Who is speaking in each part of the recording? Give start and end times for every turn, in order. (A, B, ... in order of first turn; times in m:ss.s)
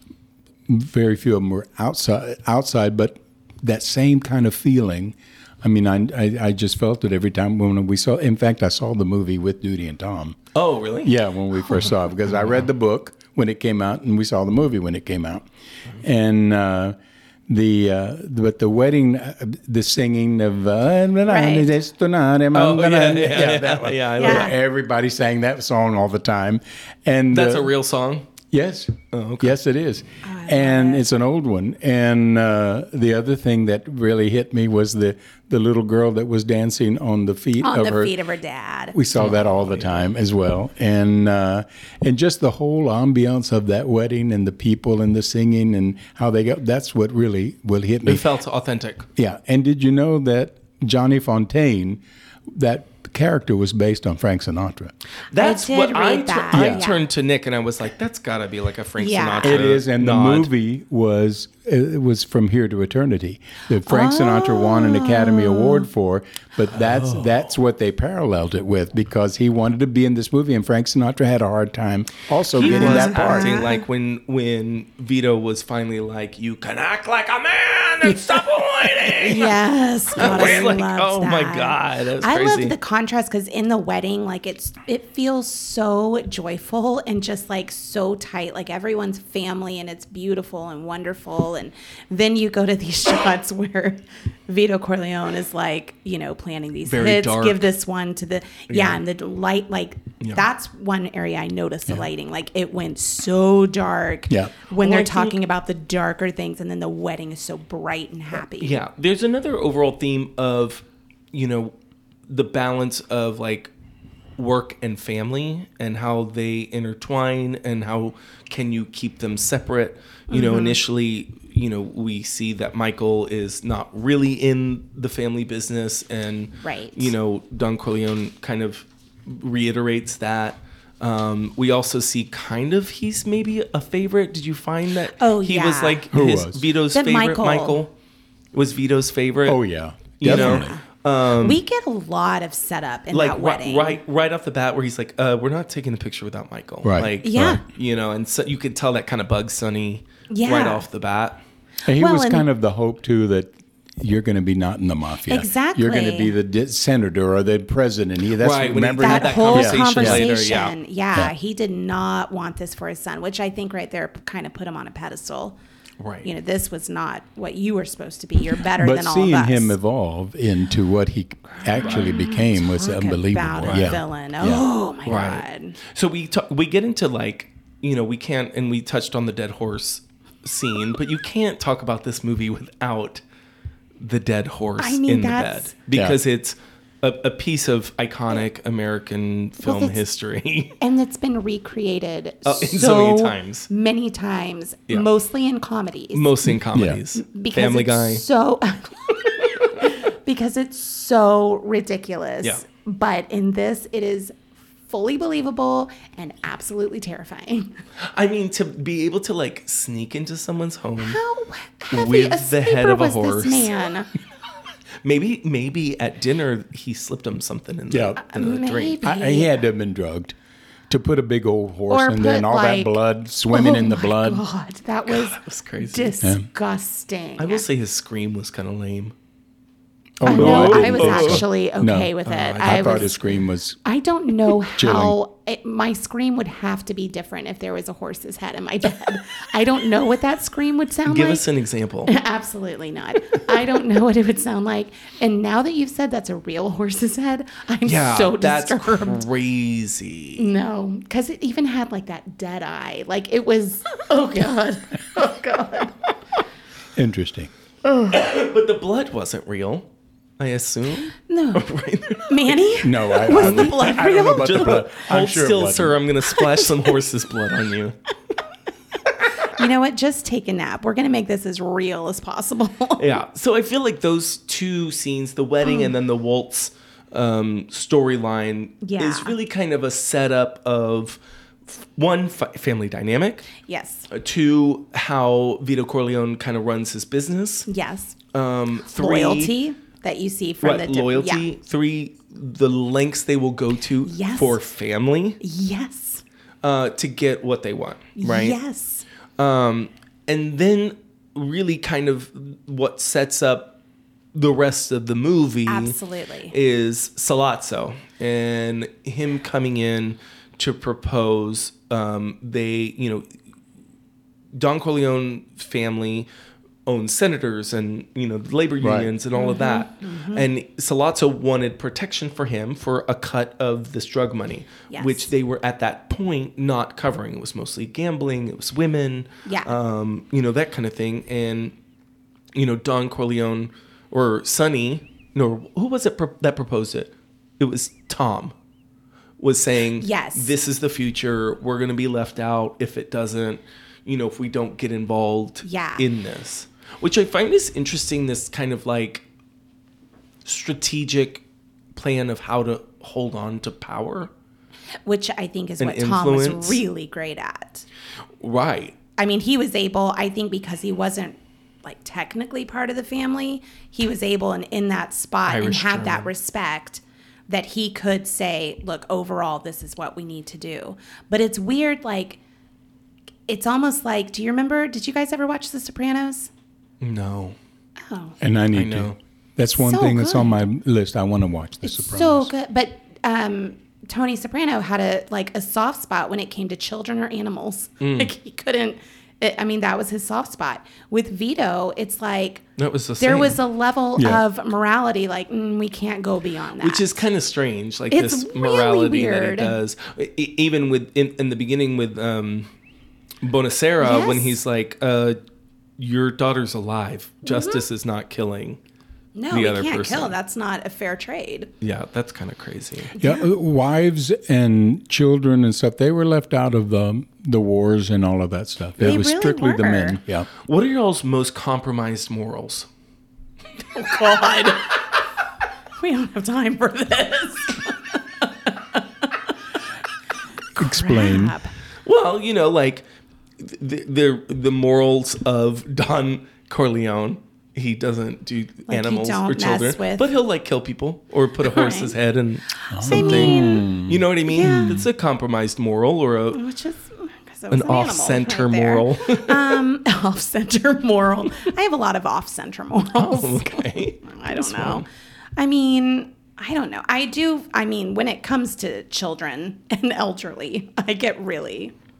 0:00.7-0:10.4 A
0:10.5-0:11.1 B
0:11.0-0:15.4 A
0:16.0-0:16.9 A
0:17.5-0:27.7 A
0:21.3-0:21.7 C
0:22.5-0:24.5 B
0:24.2-0:24.5 C
0:27.3-0:28.3 B
0:28.5-0:38.1 A
0:29.1-0:29.5 B
0:30.2-0:31.0 C
0:37.6-0:39.0 C
0:38.9-0:48.2 A
0:39.1-0:40.0 B
0:48.0-0:49.1 B
0:49.2-0:54.9 A
0:55.3-1:00.5 B
0:55.4-0:57.1 C
0:56.5-0:56.8 A
0:59.0-0:59.6 C
0:59.4-1:13.6 A
1:03.8-1:05.9 C
1:06.7-1:07.4 B
1:12.5-1:19.6 B
1:12.6-1:13.8 C
1:19.1-1:48.8 C
1:20.2-1:22.7 B
1:20.2-1:20.6 A
1:36.8-1:37.6 B
1:38.7-1:39.0 B
1:44.3-1:44.5 A
1:44.7-1:45.3 B
1:48.6-1:51.7 B
1:52.3-1:53.7 B
1:54.4-2:17.9 B
2:00.3-2:00.8 C
2:06.6-2:07.1 C
2:15.2-2:16.1 C
2:16.1-2:16.6 A
2:16.9-2:17.8 C
2:18.5-2:19.6 B
2:19.4-2:20.7 A
2:20.2-2:21.6 B
2:20.2-2:20.8 C
2:21.4-2:24.0 C
2:23.1-2:31.4 B
2:26.8-2:27.6 A
2:27.2-2:27.6 C
2:30.3-2:30.8 C
2:31.8-2:40.3 A
2:31.9-2:32.4 C
2:35.3-2:36.3 C
2:38.4-2:40.8 B
2:39.0-2:45.6 C
2:46.0-2:46.3 B
2:46.2-2:49.7 C
2:48.8-2:54.6 A
2:51.6-2:55.8 C
2:51.8-2:52.1 B
2:53.6-2:53.9 B
2:55.0-3:03.2 B
3:04.0-3:10.8 B
3:04.8-3:05.7 C
3:05.9-3:06.2 A
3:09.6-3:10.0 C
3:10.8-3:16.3 C
3:12.4-3:13.7 B
3:16.1-3:18.2 B
3:16.7-3:17.0 A
3:17.2-3:24.3 C
3:24.9-3:27.8 C
3:28.0-3:31.2 B
3:31.0-3:34.1 C
3:31.9-3:33.7 B
3:35.0-3:39.0 B
3:37.9-3:38.2 A
3:38.2-3:39.6 C
3:39.0-3:40.3 A
3:40.9-3:44.4 A
3:41.9-3:43.0 C
3:43.5-3:47.6 C
3:45.1-3:46.1 B
3:46.2-3:46.4 A
3:47.4-3:49.1 B
3:50.2-3:53.8 A
3:50.2-4:01.4 C
3:50.2-3:51.4 B
3:52.2-3:53.2 B
3:54.8-3:55.2 A
4:01.0-4:02.1 B
4:02.1-4:09.2 C
4:07.8-4:10.4 B
4:10.4-4:16.0 C
4:16.9-4:17.5 A
4:18.1-4:19.9 B
4:20.4-4:22.6 B
4:21.2-4:24.9 C
4:22.8-4:26.0 A
4:23.3-4:28.0 B
4:26.3-4:26.8 C
4:29.0-4:33.1 C
4:33.0-4:43.5 B
4:35.6-4:35.9 C
4:38.8-4:39.3 C
4:43.6-4:44.1 C
4:44.1-4:47.7 B
4:47.7-4:48.2 C
4:48.3-4:49.5 B
4:48.9-4:51.4 C
4:50.6-4:55.4 B
4:54.0-4:54.6 C
4:55.4-4:56.2 C
4:56.6-4:58.6 B
4:58.2-4:59.0 C
4:59.4-5:03.8 B
5:04.3-5:06.0 B
5:05.7-5:06.5 C
5:06.5-5:13.2 B
5:14.5-5:16.3 B
5:16.8-5:31.7 B
5:18.8-5:19.1 A
5:19.3-5:20.5 C
5:24.9-5:25.3 C
5:29.4-5:29.7 C
5:32.5-5:38.5 B
5:39.4-5:49.2 B
5:40.0-5:40.5 C
5:45.6-5:46.0 C
5:50.4-5:51.4 B
5:51.9-5:54.3 B
5:55.0-5:57.8 C
5:55.8-5:56.8 B
5:58.4-5:59.0 B
5:59.2-6:12.4 C
6:05.5-6:06.3 B
6:13.5-6:16.5 C
6:17.0-6:17.6 B
6:18.0-6:18.4 C
6:18.4-6:22.5 A
6:18.7-6:19.2 B
6:19.8-6:20.6 C
6:21.8-6:32.6 C
6:28.0-6:28.3 B
6:32.8-6:33.6 B
6:33.2-6:37.2 C
6:34.2-6:34.4 A
6:36.8-6:42.7 B
6:38.1-6:39.8 C
6:43.4-6:45.4 B
6:44.0-6:44.6 C
6:46.0-6:48.8 B
6:47.4-6:47.8 C
6:49.3-6:51.7 C
6:49.5-6:50.3 B
6:51.8-6:53.1 B
6:53.1-6:53.5 C
6:53.2-7:00.5 A
6:59.0-7:00.2 C
7:00.6-7:02.9 B
7:03.9-7:05.0 C
7:06.0-7:09.5 C
7:10.7-7:11.7 C
7:10.8-7:11.6 A
7:12.0-7:13.0 B
7:13.6-7:26.6 B
7:18.9-7:20.3 C
7:21.6-7:22.2 C
7:22.8-7:23.9 C
7:22.9-7:25.0 A
7:24.5-7:25.0 C
7:26.5-7:35.0 C
7:27.7-7:29.8 B
7:33.1-7:35.0 B
7:35.6-7:41.9 C